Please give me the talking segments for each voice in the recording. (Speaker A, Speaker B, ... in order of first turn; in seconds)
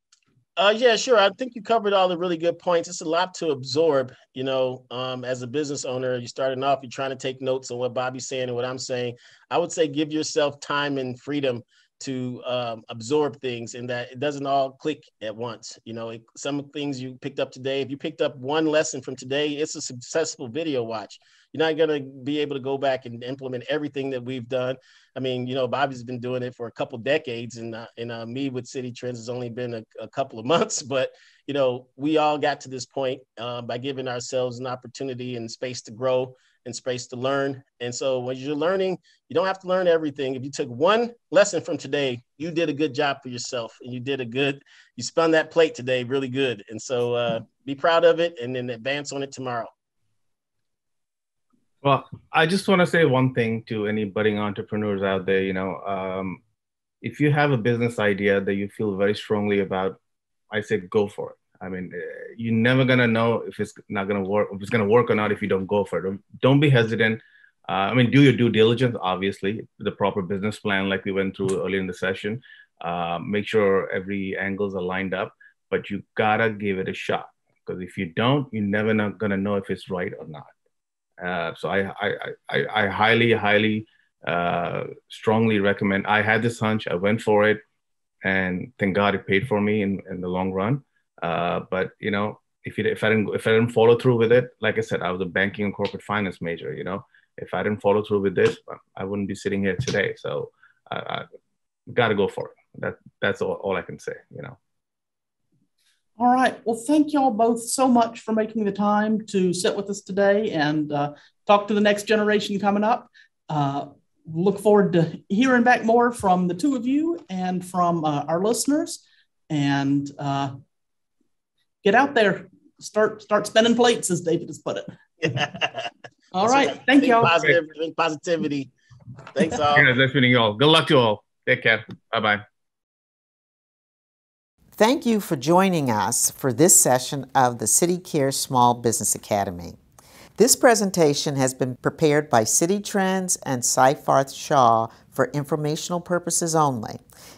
Speaker A: 0.6-49.7, 125.2-125.9, 126.4-128.7, 129.3-129.9
Speaker B: 51.8-56.4, 57.0-60.0, 60.5-80.5, 81.2-87.6, 88.2-101.2, 101.9-104.6, 129.7-132.4
Speaker C: 106.2-120.5, 121.8-124.9, 126.3-127.3
Speaker D: 134.8-139.8, 140.4-147.0